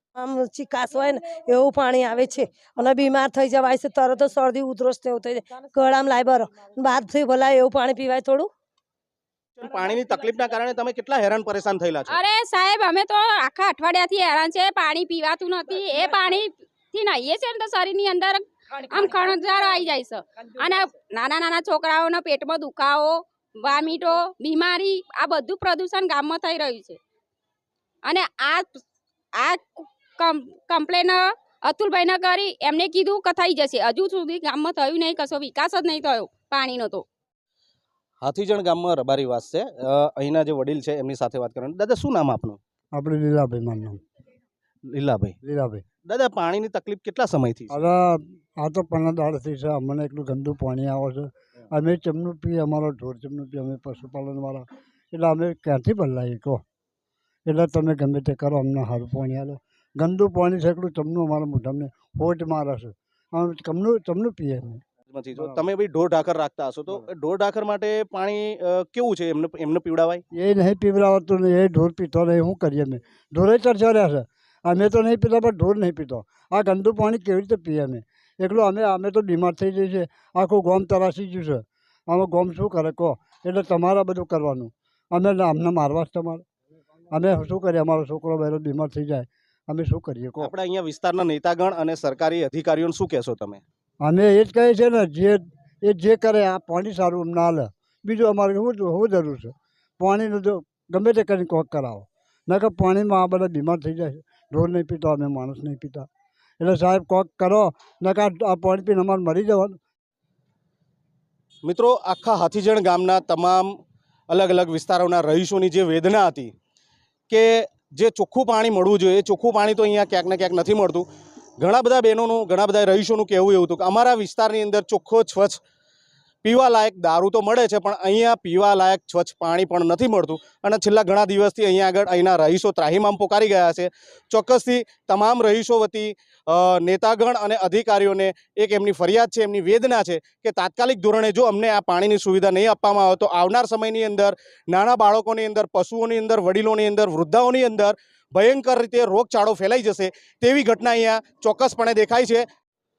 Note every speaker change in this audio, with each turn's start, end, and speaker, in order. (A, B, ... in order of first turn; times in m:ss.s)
0:00.2-0:08.5 A
0:09.6-0:12.2 B
0:12.1-0:27.0 C
0:28.0-0:28.8 C
0:29.4-0:37.0 C
0:38.2-0:42.6 B
0:42.9-0:44.0 D
0:44.9-0:45.3 B
0:45.4-0:45.8 D
0:46.1-0:47.8 B
0:47.7-0:56.6 D
0:57.5-1:04.8 D
1:05.1-1:10.2 B
1:05.4-1:05.6 D
1:10.3-1:26.4 D
1:27.1-1:30.5 D
1:30.4-1:33.6 B
1:34.0-1:46.0 D
1:46.6-1:49.8 D
1:51.6-1:53.7 B
1:54.3-1:56.5 B
1:57.3-2:01.0 B
2:01.6-2:05.6 B
2:06.4-2:32.4 B